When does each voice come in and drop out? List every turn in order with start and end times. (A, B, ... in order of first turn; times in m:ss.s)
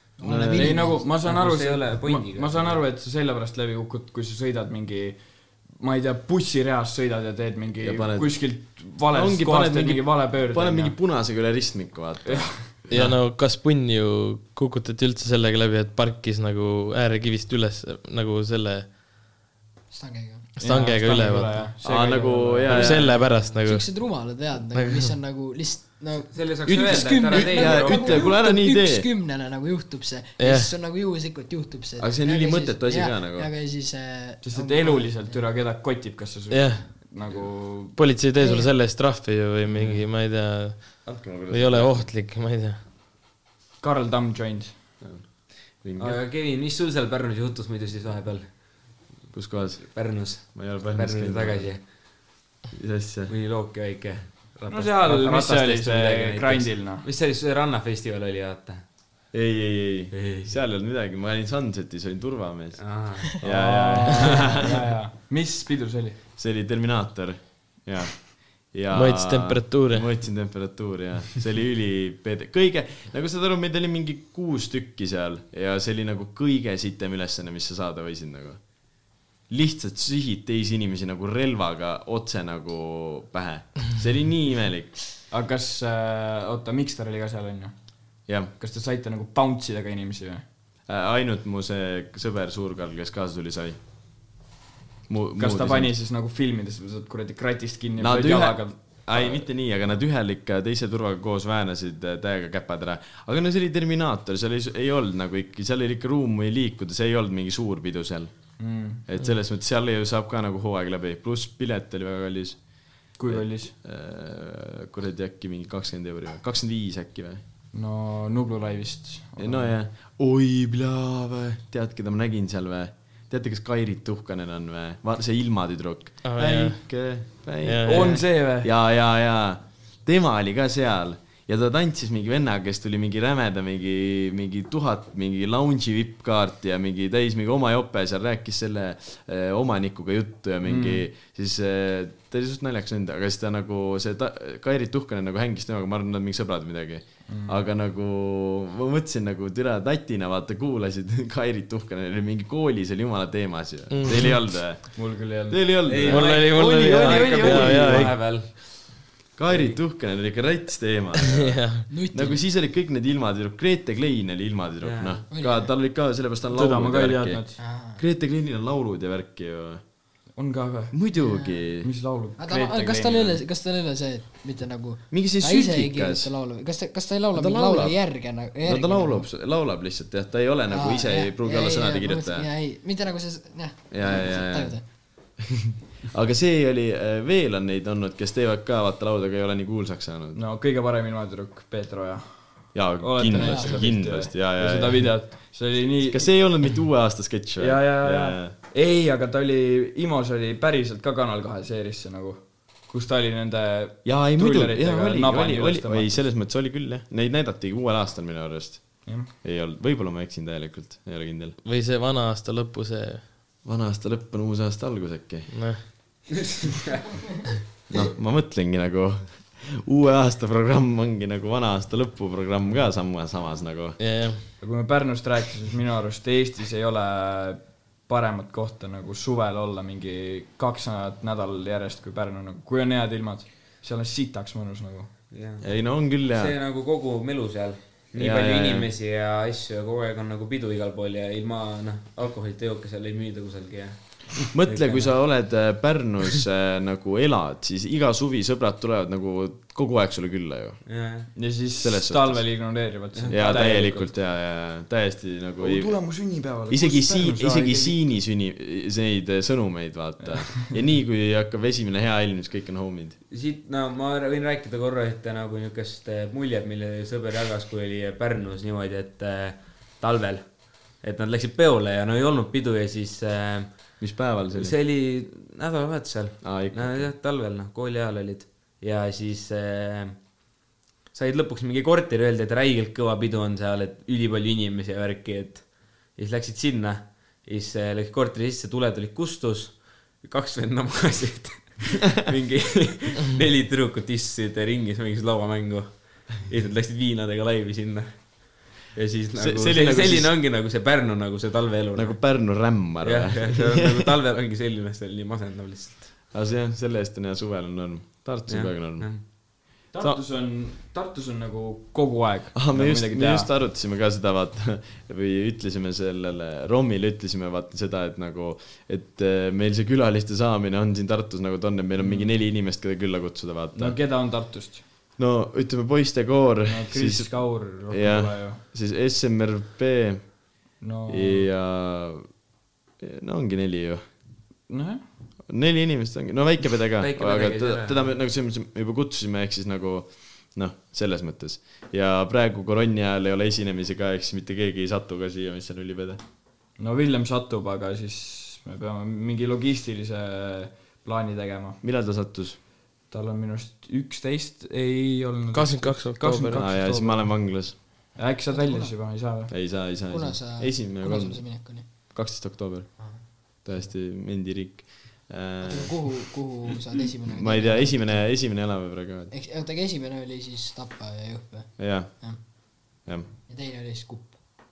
0:00.2-0:01.2 A
0:00.2-0:00.8 B
0:00.5-0:11.0 C
0:00.9-0:02.8 D
0:07.8-0:12.9 B
0:12.3-0:13.1 C
0:12.9-0:19.0 E
0:19.9-0:20.5 A
0:20.6-0:21.7 E
0:20.6-0:23.1 C
0:21.8-0:23.2 B
0:22.7-0:35.5 A
0:22.7-0:25.1 E
0:26.3-0:28.4 D
0:26.6-0:29.1 B
0:30.4-0:30.8 E
0:32.0-0:33.5 B
0:34.4-0:38.0 C
0:36.5-0:37.1 E
0:37.9-0:42.8 E
0:38.4-0:38.8 A
0:41.0-0:42.2 B
0:43.8-0:44.8 C
0:45.0-0:46.2 B
0:46.0-0:49.0 D
0:49.3-0:53.3 B
0:49.8-0:52.2 D
0:53.3-0:58.8 D
0:54.7-0:57.0 C
0:59.3-1:04.8 B
1:00.1-1:00.6 D
1:02.8-1:03.3 D
1:03.4-1:06.2 C
1:06.4-1:25.0 B
1:08.9-1:10.2 E
1:25.3-1:30.4 C
1:28.3-1:28.5 B
1:30.9-1:33.8 B
1:35.1-1:35.9 B
1:35.4-1:39.4 C
1:38.0-1:57.4 B
1:48.6-1:49.0 C
1:53.2-1:53.7 C
1:57.7-1:59.8 C
1:59.4-2:38.6 B
2:06.2-2:07.1 E
2:07.6-2:08.2 E
2:07.8-2:08.7 C
2:20.6-2:21.1 C
2:27.3-2:27.6 C
2:33.9-2:34.6 E
2:34.9-2:38.1 C
2:35.8-2:39.0 D
2:36.0-2:38.4 E
2:39.4-2:49.8 B
2:39.5-2:39.8 D
2:41.3-2:41.9 E
2:41.9-2:42.4 A
2:44.8-2:45.3 D
2:45.3-2:45.7 A
2:46.5-2:47.6 C
2:47.6-2:48.0 A
2:50.4-2:51.1 C
2:50.9-2:51.9 B
2:51.2-2:51.6 A
2:51.8-2:53.4 C
2:52.4-2:59.3 A
2:55.1-2:56.3 B
2:57.3-3:02.5 B
3:00.7-3:04.8 A
3:03.9-3:05.4 B
3:06.1-3:10.4 B
3:10.4-3:16.7 C
3:12.7-3:18.6 B
3:13.3-3:14.1 A
3:17.6-3:26.3 C
3:24.0-3:31.6 B
3:29.0-3:29.3 C
3:31.6-3:33.2 E
3:33.6-3:35.9 B
3:35.5-3:35.8 E
3:37.9-3:44.0 B
3:44.0-3:44.5 E
3:44.6-3:55.1 C
3:55.3-4:05.7 D
3:55.6-3:56.5 B
3:58.1-3:58.9 B
4:04.5-4:23.2 B
4:10.8-4:11.3 D
4:11.4-4:14.1 C
4:13.1-4:13.8 D
4:15.6-4:18.0 C
4:23.3-4:40.6 D
4:34.0-4:34.8 B
4:36.4-4:37.1 B
4:41.1-5:06.2 D
4:59.4-5:00.3 B
5:01.9-5:04.1 B
5:06.3-5:10.2 B
5:08.5-5:09.3 D
5:09.9-5:13.5 C
5:12.5-5:24.0 B
5:22.0-5:22.4 C
5:23.7-5:24.8 C
5:25.2-5:30.5 B
5:26.7-5:28.6 C
5:30.8-5:31.5 C
5:31.1-5:32.4 B
5:33.0-5:34.0 B
5:34.7-5:35.0 C
5:35.5-5:46.2 B
5:37.0-5:38.2 D
5:46.8-5:51.8 C
5:51.8-5:52.6 B
5:53.1-5:57.0 C
5:55.5-5:57.3 E
5:56.6-5:58.2 B
5:58.2-5:59.5 C
5:58.5-5:59.1 A
5:59.5-6:06.3 B
5:59.9-6:01.9 A
6:03.0-6:03.9 A
6:05.6-6:12.4 A
6:07.3-6:09.3 B
6:11.8-6:13.3 B
6:13.5-6:14.4 A